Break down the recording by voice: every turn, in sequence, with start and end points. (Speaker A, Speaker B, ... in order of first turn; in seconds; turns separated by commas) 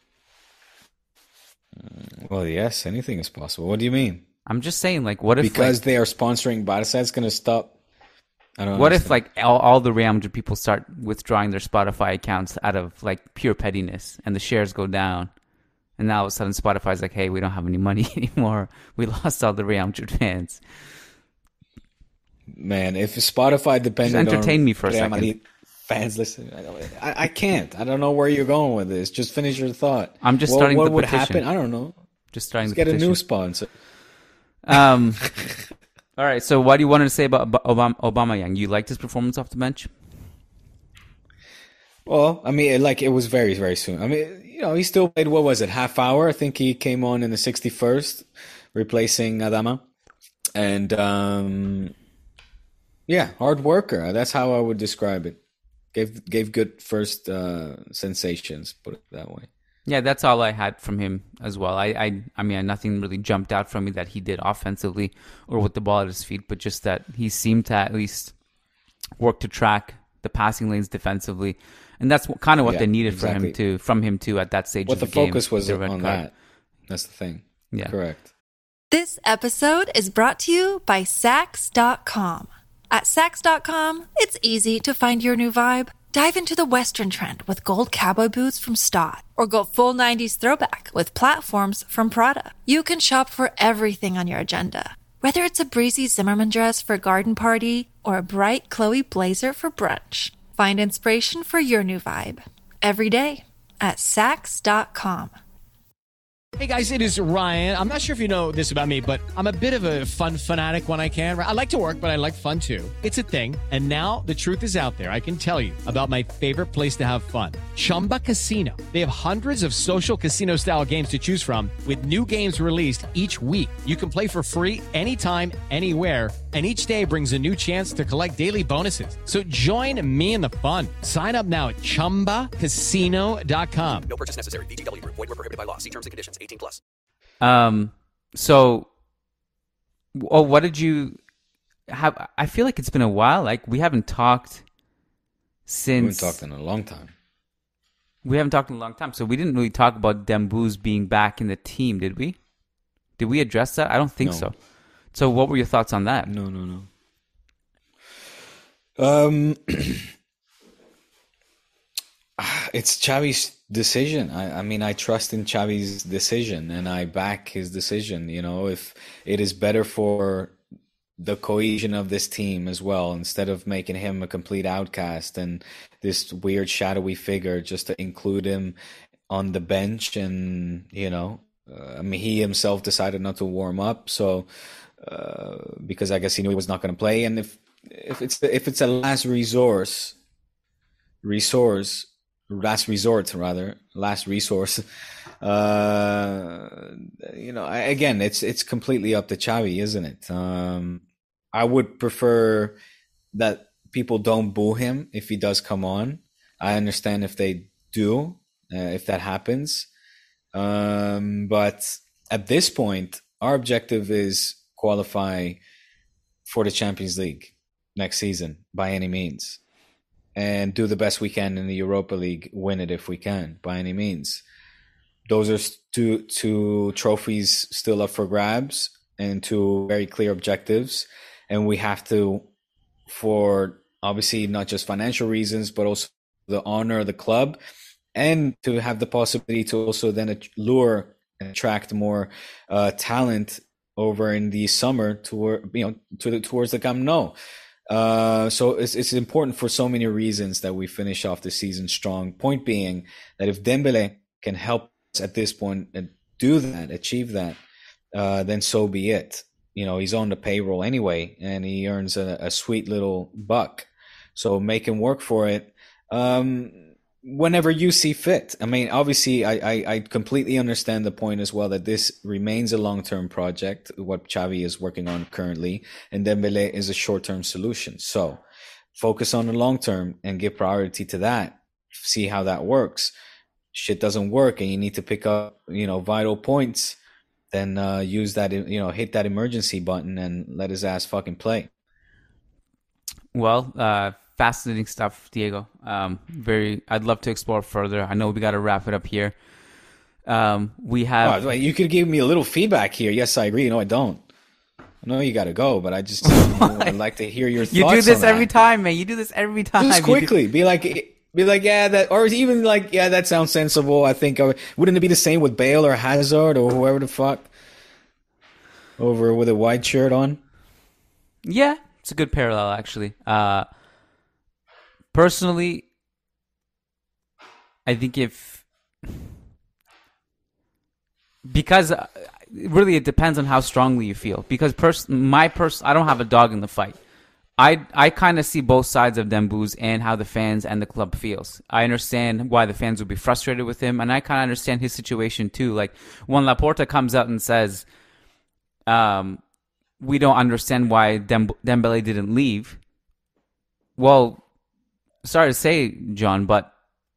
Speaker A: 1.8-4.2, Speaker B: 4.5-5.8, Speaker A: 5.4-7.7, Speaker A: 8.6-9.2, Speaker B: 8.7-15.3, Speaker B: 16.0-20.6, Speaker A: 22.5-31.9, Speaker B: 24.1-25.3, Speaker B: 30.2-31.4, Speaker B: 32.3-33.2, Speaker A: 32.6-33.7, Speaker B: 34.6-35.3, Speaker B: 36.2-39.9, Speaker A: 42.1-49.8, Speaker A: 50.5-51.9, Speaker A: 53.1-55.4, Speaker A: 55.9-59.5, Speaker B: 59.9-68.3, Speaker B: 69.2-76.2, Speaker A: 72.7-73.6, Speaker A: 74.9-76.3, Speaker A: 76.9-78.3, Speaker C: 78.9-105.3, Speaker D: 106.6-134.1, Speaker E: 134.1-136.8, Speaker B: 137.4-138.9, Speaker B: 140.1-141.2, Speaker B: 141.9-144.7, Speaker B: 145.7-146.4, Speaker A: 146.0-147.1, Speaker B: 148.2-152.4, Speaker B: 153.2-154.6, Speaker A: 154.2-154.5, Speaker B: 155.1-156.3, Speaker A: 156.3-156.9, Speaker A: 159.0-160.1, Speaker A: 162.4-170.6, Speaker A: 171.2-178.8, Speaker A: 179.3-184.5, Speaker A: 185.0-190.2, Speaker A: 191.2-194.8, Speaker A: 195.4-202.8, Speaker A: 203.3-209.9, Speaker A: 210.5-215.6, Speaker A: 216.5-219.6, Speaker A: 220.3-224.4, Speaker A: 225.3-232.4, Speaker A: 233.1-237.6, Speaker A: 238.2-247.3, Speaker A: 247.9-257.6, Speaker A: 258.1-278.4, Speaker A: 278.9-283.1, Speaker A: 283.7-287.0, Speaker A: 287.5-291.7, Speaker B: 293.3-299.4, Speaker B: 300.3-301.4, Speaker A: 301.2-304.2, Speaker A: 305.0-308.5, Speaker B: 306.2-307.0, Speaker B: 307.7-310.3, Speaker A: 309.8-317.5, Speaker A: 319.0-320.4, Speaker B: 321.4-323.7, Speaker B: 325.1-325.9, Speaker B: 327.9-328.7, Speaker B: 331.4-337.0, Speaker B: 337.6-347.9, Speaker B: 348.9-349.4, Speaker B: 350.0-352.8, Speaker B: 354.0-354.4, Speaker B: 355.2-356.7